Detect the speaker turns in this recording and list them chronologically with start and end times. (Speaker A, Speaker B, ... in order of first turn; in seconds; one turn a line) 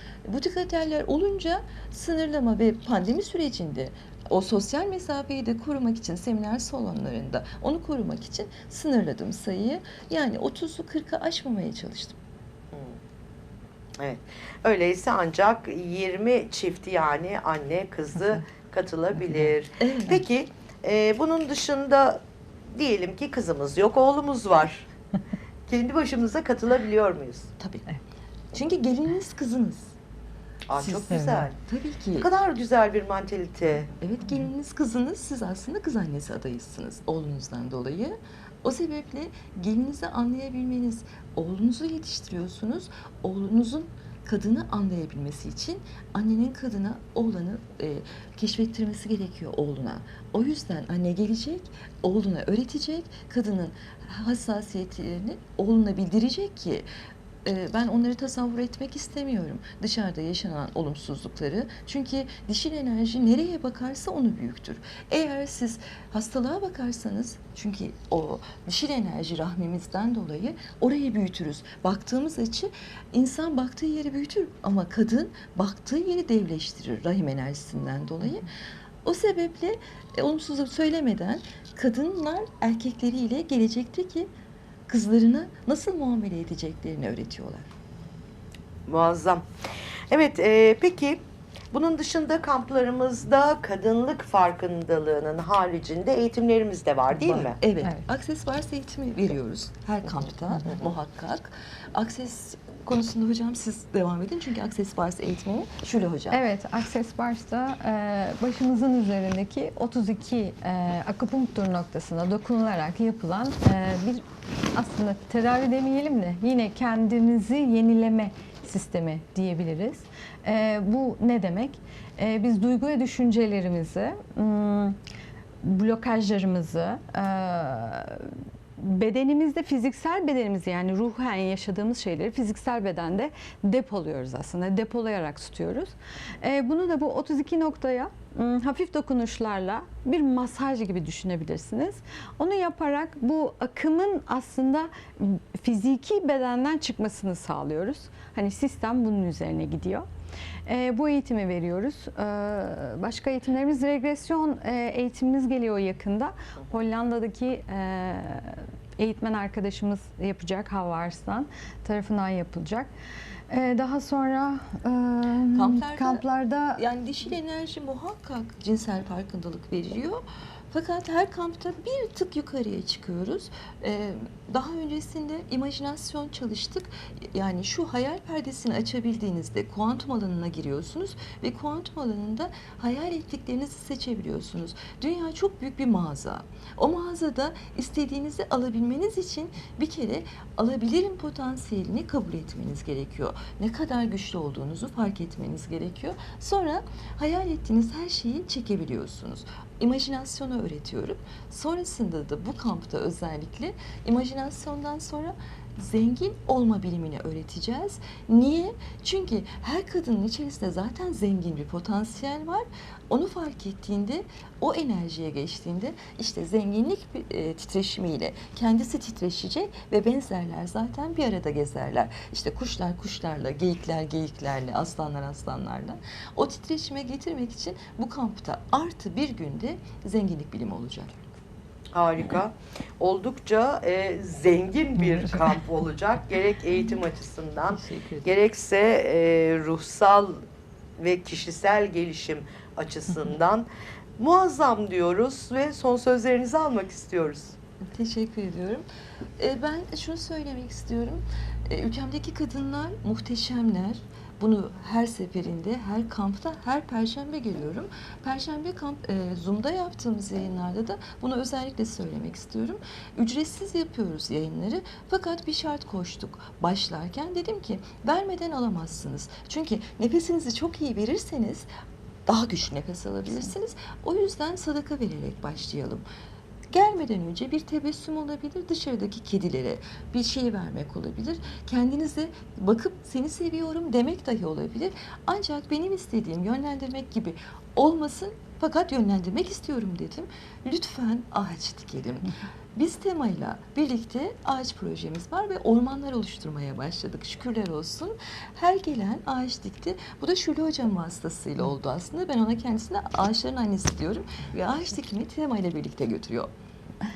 Speaker A: 0.2-12.2
Speaker B: 14.0-22.2
Speaker A: 19.8-20.2
Speaker B: 22.7-24.9
Speaker B: 25.7-27.5
Speaker A: 27.6-27.9
Speaker A: 28.5-29.9
Speaker B: 30.7-31.5
Speaker A: 30.8-32.3
Speaker C: 31.1-31.5
Speaker B: 32.2-33.9
Speaker A: 34.0-56.9
Speaker A: 57.5-78.5
Speaker A: 79.0-84.3
Speaker A: 84.9-87.7
Speaker B: 88.9-89.5
Speaker B: 90.1-97.6
Speaker A: 97.3-106.4
Speaker C: 106.3-125.0
Speaker C: 125.6-150.1
Speaker C: 150.7-162.9
Speaker C: 163.5-166.8
Speaker A: 165.5-231.2
Speaker B: 231.9-240.4
Speaker A: 237.8-238.3
Speaker B: 241.0-243.7
Speaker B: 244.2-247.6
Speaker A: 247.9-248.8
Speaker A: 249.4-271.7
Speaker A: 272.3-276.1
Speaker A: 276.7-306.5